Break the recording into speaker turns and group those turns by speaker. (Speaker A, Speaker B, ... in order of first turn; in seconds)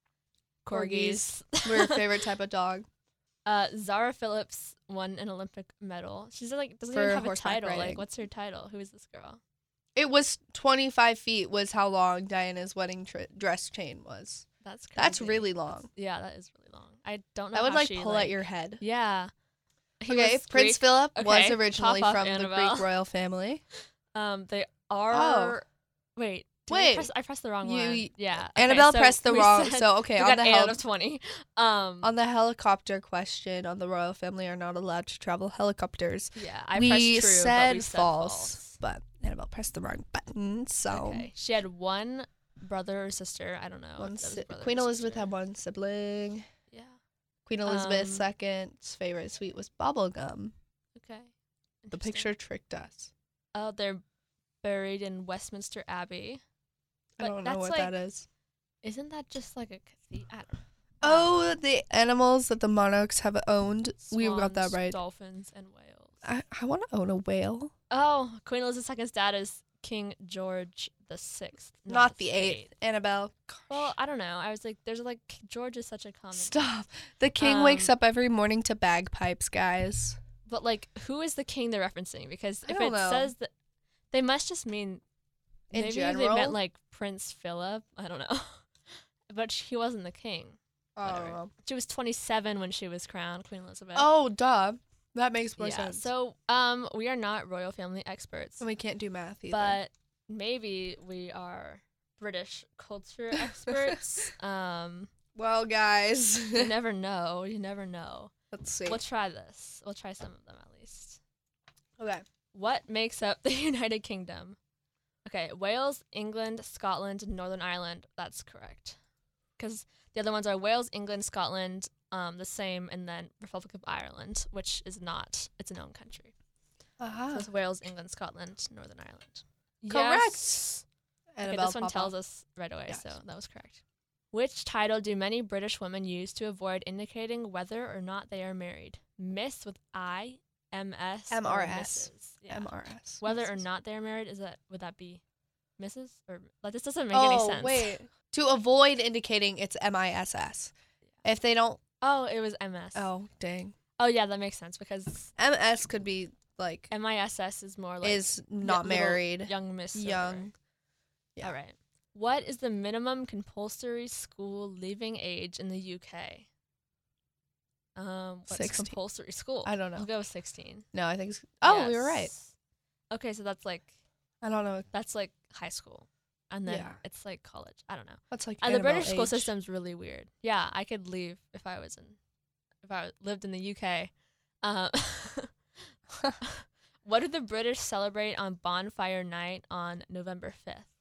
Speaker A: 0.6-2.0, 3.5-9.4, 14.6-19.3, 20.0-22.9, 24.1-32.1, 36.3-38.8, 40.9-45.3, 46.7-47.0, 47.6-48.3, 51.0-51.3, 51.8-52.3, 53.5-54.0, 54.6-56.4, 57.2-58.0, 58.8-61.5, 64.0-66.2, 67.9-72.7, 73.7-76.7, 77.4-77.9, 80.5-83.5, 84.1-85.0, 85.7-88.7, 89.3-94.1, 95.6-98.6, 99.5-105.1, 106.5-108.3, 108.8-111.2, 112.5-114.6, 115.2-119.0, 119.6-126.3, 127.3-130.8, 131.4-142.7, 143.2-145.2, 145.8-147.9, 152.0-153.1, 154.0-155.3, 156.9-160.5, 161.4-166.5, 167.9-170.8, 171.6-172.5, 173.1-173.9, 174.9-182.2, 182.8-184.1, 184.6-185.5, 186.4-190.9
Speaker B: 0.7-2.9, 6.9-8.1, 9.9-15.9, 17.5-18.8, 20.1-23.6, 25.1-25.6, 26.7-27.1, 27.6-30.8, 32.0-41.3, 44.0-46.4, 47.5-50.5, 51.9-53.1, 57.2-58.2, 61.0-65.0, 66.2-67.7, 71.9-73.9, 76.3-80.2, 82.7-83.3, 85.7-86.6, 91.0-91.5, 93.9-96.1, 98.6-99.8, 105.3-106.7, 108.5-109.0, 112.0-112.2, 127.0-127.5, 129.9-130.7, 131.3-132.1, 132.9-133.2, 141.3-143.6, 147.1-150.7, 151.2-151.8, 152.9-153.7, 155.4-156.9, 158.0-160.5, 168.5-168.9, 169.6-170.1, 170.9-172.3, 174.4-174.8, 176.7-177.0, 178.3-179.5